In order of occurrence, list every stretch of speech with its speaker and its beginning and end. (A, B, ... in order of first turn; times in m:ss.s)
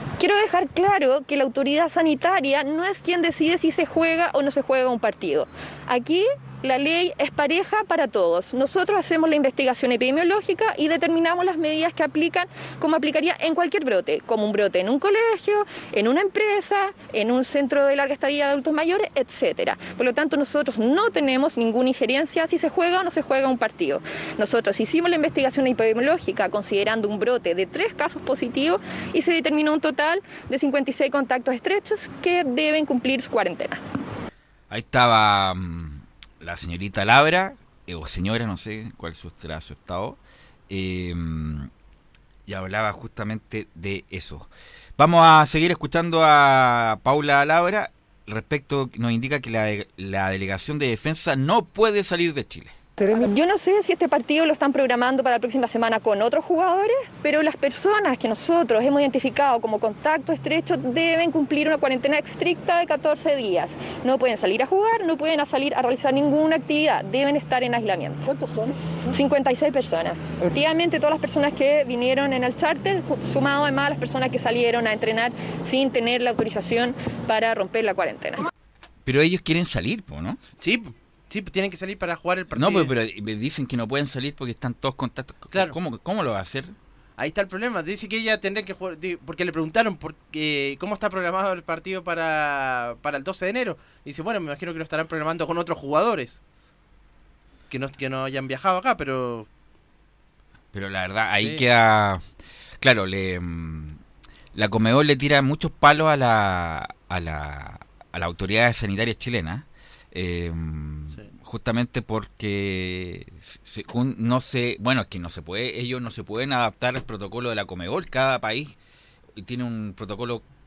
0:00.2-0:33.8 A
0:34.7-0:41.7 B
0:42.5-0:52.7 B
0:53.1-1:08.3 A
1:09.1-1:18.5 A
1:19.0-1:20.4 B
1:20.6-1:22.9 C
1:22.5-1:26.7 B
1:27.2-1:36.4 C
1:37.7-1:39.5 C
1:40.7-1:42.2 B
1:41.3-1:41.6 C
1:42.8-1:44.0 B
1:44.5-1:58.8 B
1:59.4-2:00.4 B